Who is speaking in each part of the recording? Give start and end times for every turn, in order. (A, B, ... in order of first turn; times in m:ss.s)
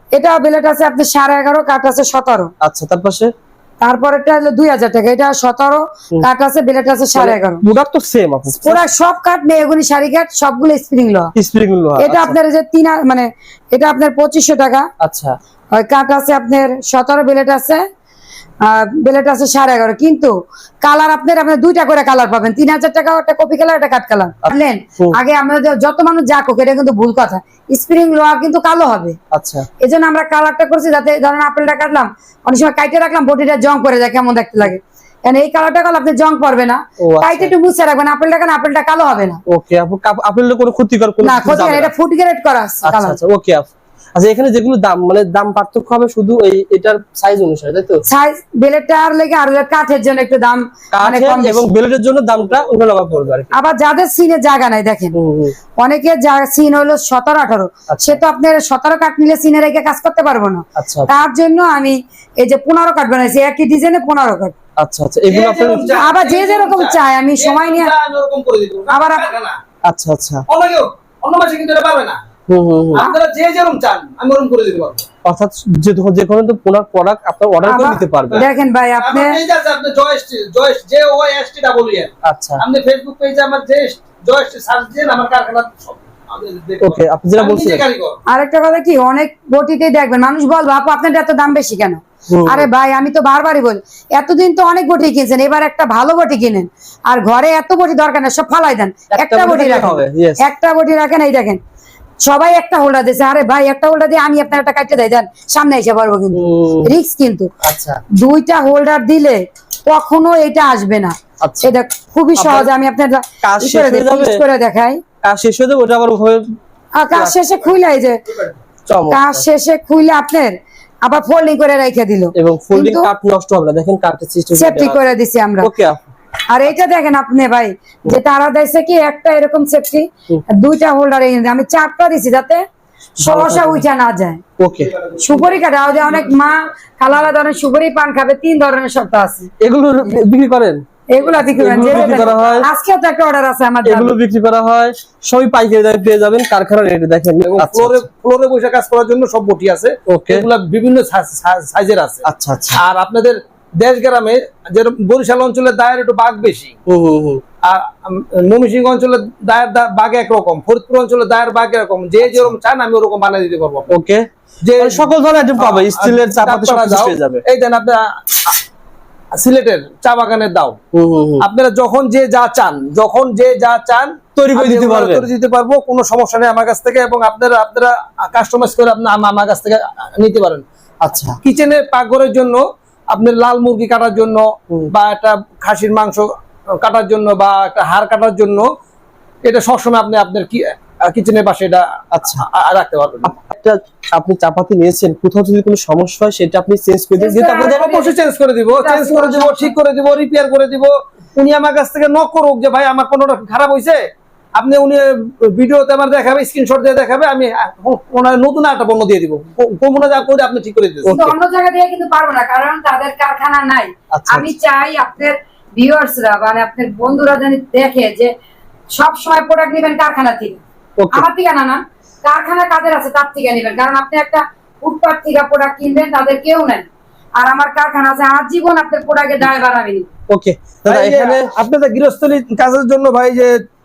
0:00.1-0:02.5 A
0:02.6-0:03.3 B
0:03.8-0:07.6 A
0:07.2-0:08.8 B
0:08.5-0:11.3 A
0:11.3-0:12.4 B
0:12.0-0:14.9 A
0:15.0-0:15.3 B
0:15.8-0:17.8 A
0:18.6-0:29.2 A
0:24.4-0:25.2 B
0:29.3-0:29.7 B
0:29.8-0:39.4 A
0:37.0-0:37.5 B
0:39.5-0:41.9 B
0:41.2-0:43.2 A
0:42.8-0:48.0 B
0:48.1-0:51.7 A
0:50.9-0:53.5 B
0:53.5-0:55.2 A
0:55.1-0:55.5 B
0:55.8-1:04.5 A
0:57.9-0:58.2 B
1:00.8-1:01.1 B
1:04.8-1:05.9 B
1:05.3-1:09.6 C
1:05.9-1:07.9 A
1:08.9-1:09.3 A
1:09.8-1:10.4 B
1:10.5-1:12.2 C
1:12.5-1:13.0 B
1:12.9-1:15.1 C
1:15.2-1:18.5 B
1:17.6-1:19.4 A
1:18.3-1:28.2 C
1:22.2-1:22.6 B
1:26.8-1:27.8 B
1:28.3-1:41.6 A
1:32.3-1:32.7 B
1:39.1-1:40.4 B
1:42.2-1:47.5 A
1:46.3-1:46.9 B
1:47.6-1:48.0 B
1:48.2-1:55.0 A
1:51.4-1:51.7 B
1:52.4-1:52.7 B
1:53.4-1:54.4 B
1:55.2-1:56.4 B
1:57.0-1:58.2 A
1:58.9-1:59.4 B
1:59.1-2:03.1 A
2:02.3-2:05.0 B
2:04.6-2:05.7 A
2:05.6-2:06.0 B
2:06.5-2:12.6 A
2:13.2-2:14.4 A
2:13.2-2:13.8 B
2:14.6-2:15.0 B
2:15.1-2:15.6 C
2:15.2-2:19.5 A
2:19.6-2:20.8 B
2:21.1-2:24.2 A
2:21.3-2:22.7 B
2:21.6-2:22.6 C
2:23.8-2:28.1 B
2:27.4-2:32.2 C
2:30.1-2:30.4 B
2:32.2-2:32.8 B
2:32.8-2:36.8 C
2:36.9-2:37.4 B
2:37.6-2:44.0 C
2:42.2-2:42.5 B
2:43.9-2:44.3 B
2:44.6-2:48.6 C
2:44.8-2:47.4 B
2:49.3-2:50.8 C
2:50.9-2:51.4 B
2:51.4-3:00.6 C
2:54.4-2:55.3 B
3:01.0-3:01.4 B
3:01.4-3:08.7 C
3:09.4-3:13.3 C
3:12.1-3:12.4 B
3:13.2-3:17.8 B
3:17.2-3:18.1 A
3:17.5-3:24.0 C
3:18.8-3:19.8 A
3:24.6-3:31.2 C
3:31.0-3:31.4 B
3:31.1-3:38.3 A
3:34.1-3:34.5 B
3:38.9-3:40.6 A
3:41.0-3:41.3 B
3:41.1-3:46.9 A
3:47.4-3:50.1 A
3:50.3-3:51.5 B
3:50.9-3:53.5 C